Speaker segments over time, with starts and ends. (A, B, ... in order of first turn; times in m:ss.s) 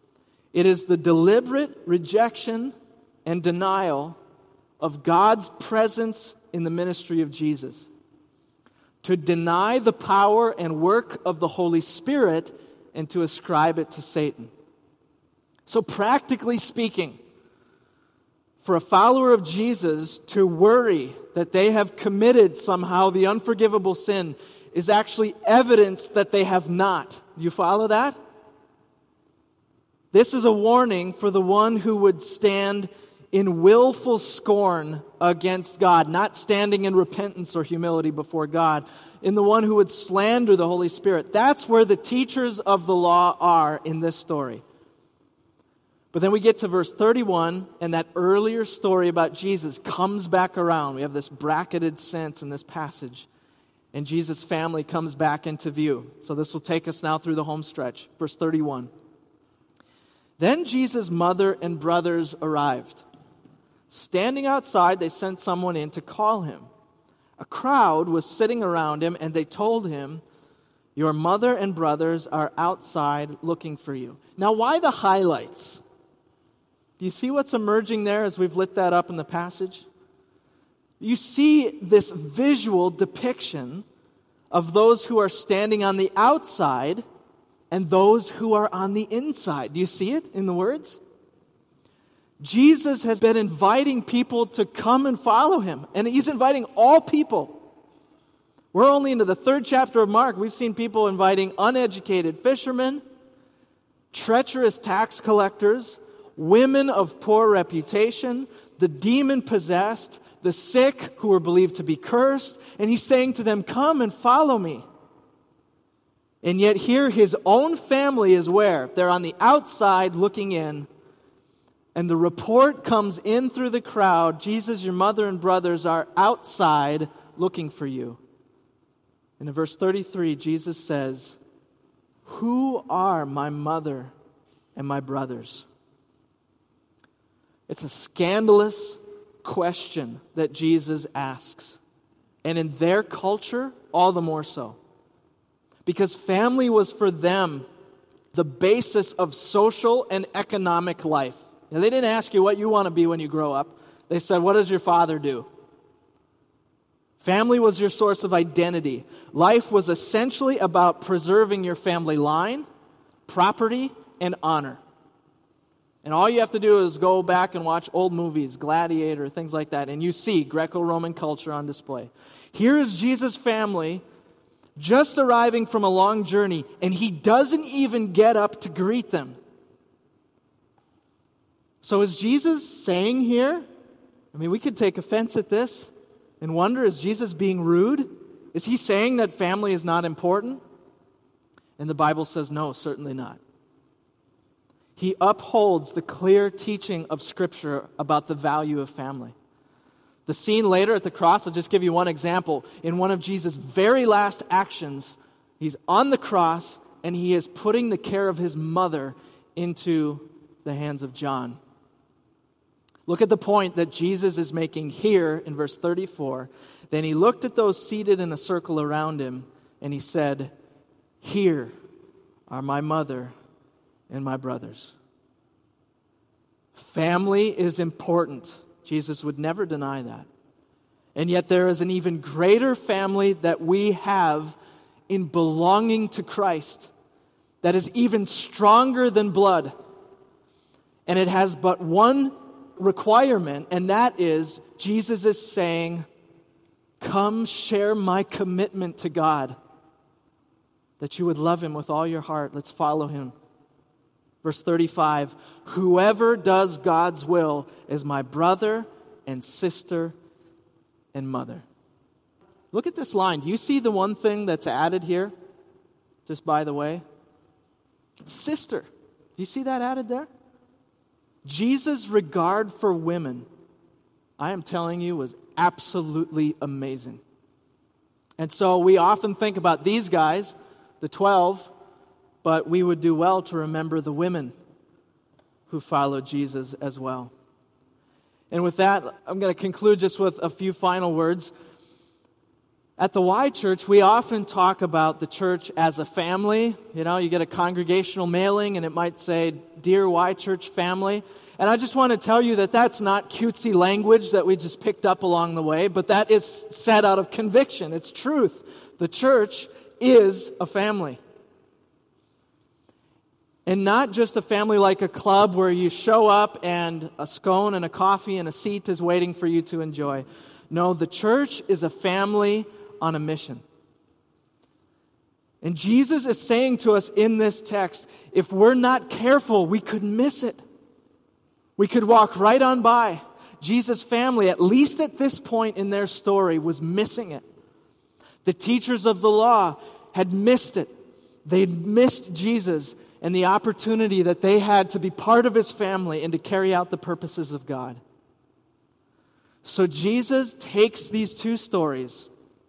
0:00.5-0:04.2 A
0:04.8-0:07.9 A
0:09.0-0:14.5 A
0:15.6-0:17.2 A
0:18.6-0:28.2 A
0:30.1-0:44.6 A
0:46.1-0:53.3 A
0:53.9-0:58.9 A
1:00.4-1:03.0 A
1:03.9-1:06.7 A
1:07.4-1:10.2 A
1:10.9-1:15.8 A
1:17.0-1:19.8 A
1:21.0-1:23.8 A
1:24.5-1:27.0 A
1:27.7-1:31.0 A
1:32.4-1:37.6 A
1:38.7-1:43.0 A
1:44.1-1:54.8 A
1:56.4-2:00.9 A
2:01.9-2:08.2 A
2:09.4-2:11.4 A
2:12.2-2:14.1 A
2:14.7-2:15.6 A
2:17.7-2:21.8 A
2:22.4-2:24.8 A
2:25.8-2:27.7 A
2:28.3-2:35.5 A
2:37.2-2:42.6 A
2:43.3-2:44.8 A
2:46.0-2:54.0 A
2:54.8-2:59.4 A
3:01.8-3:03.7 A
3:04.3-3:10.6 A
3:11.8-3:13.4 A
3:15.0-3:19.3 A
3:20.2-3:31.6 A
3:33.0-3:40.5 A
3:41.2-3:41.7 A
3:42.5-3:43.3 A
3:44.1-3:44.9 A
3:46.7-3:50.3 A
3:51.1-3:54.6 A
3:55.1-3:56.9 A
3:57.6-3:59.7 A
4:01.0-4:06.0 A
4:07.0-4:09.6 A
4:11.0-4:13.3 A
4:14.4-4:20.2 A
4:21.1-4:21.6 A
4:22.7-4:25.3 A
4:26.2-4:27.0 A
4:28.2-4:30.3 A
4:31.4-4:33.5 A
4:34.4-4:37.2 A
4:38.4-4:41.7 A
4:42.4-4:44.5 A
4:45.7-4:47.3 A
4:48.5-4:51.5 A
4:53.0-5:11.2 A
5:13.6-5:23.6 A
5:25.6-5:30.6 A
5:31.8-5:37.4 A
5:38.4-5:40.9 A
5:41.4-5:48.0 A
5:49.6-5:52.3 A